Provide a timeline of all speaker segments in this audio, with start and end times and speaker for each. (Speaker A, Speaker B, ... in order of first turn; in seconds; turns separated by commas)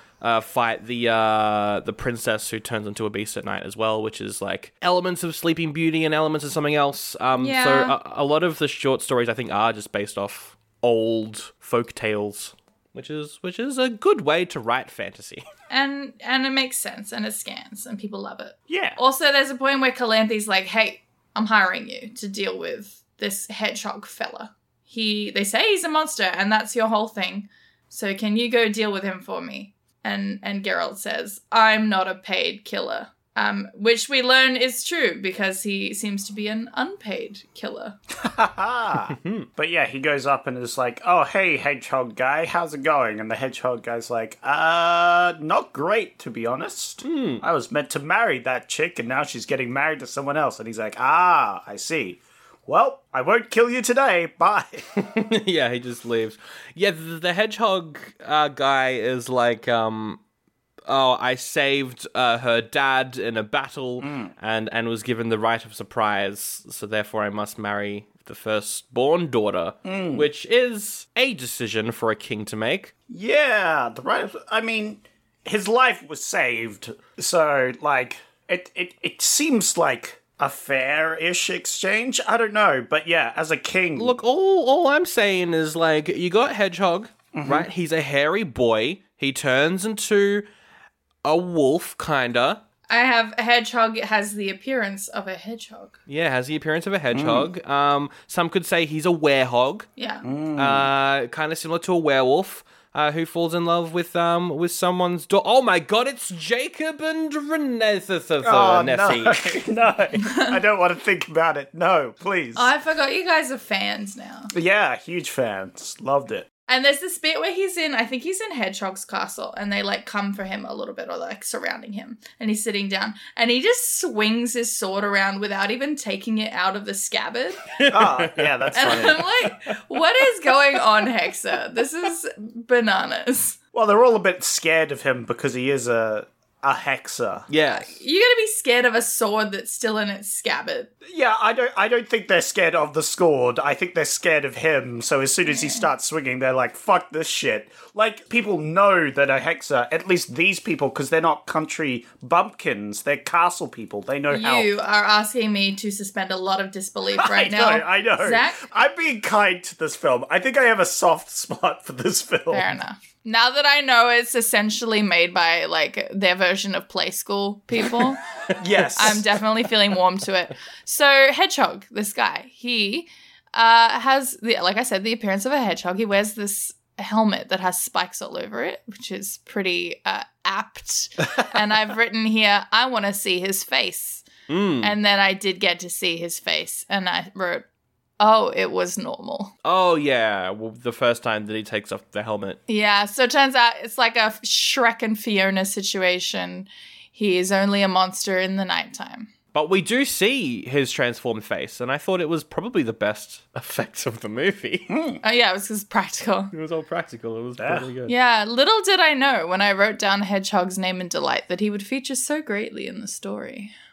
Speaker A: 0.2-15.4, Speaker B: 7.4-7.9, Speaker B: 15.7-38.0, Speaker C: 18.7-19.0, Speaker C: 38.2-54.9, Speaker A: 39.1-39.5, Speaker A: 47.0-47.4, Speaker A: 55.0-60.2, Speaker A: 60.9-72.9, Speaker C: 64.0-64.3, Speaker C: 69.8-70.3, Speaker C: 73.1-84.1, Speaker A: 84.0-90.5, Speaker C: 87.3-87.7, Speaker A: 91.2-92.6, Speaker B: 92.9-96.0, Speaker A: 96.1-99.9, Speaker C: 97.1-97.5, Speaker B: 100.0-100.2, Speaker C: 100.2-100.9, Speaker A: 100.6-109.6, Speaker C: 108.4-112.7, Speaker B: 112.5-114.5, Speaker C: 114.5-116.5, Speaker B: 116.7-127.7, Speaker A: 127.8-129.5, Speaker C: 127.9-129.3, Speaker B: 128.8-133.6, Speaker C: 133.7-137.5, Speaker A: 137.5-137.9, Speaker B: 137.7-140.9, Speaker C: 141.0-154.7, Speaker B: 145.5-145.8, Speaker B: 154.3-158.6, Speaker C: 157.2-162.7, Speaker B: 162.5-168.2, Speaker C: 168.6-169.4, Speaker B: 168.9-184.3, Speaker A: 184.5-185.0, Speaker B: 184.8-187.7, Speaker B: 188.2-189.5, Speaker A: 189.6-192.6, Speaker B: 192.7-199.3, Speaker A: 199.5-204.9, Speaker C: 204.9-205.2, Speaker B: 205.2-206.5, Speaker A: 206.5-208.1, Speaker C: 207.6-207.9, Speaker B: 208.1-213.7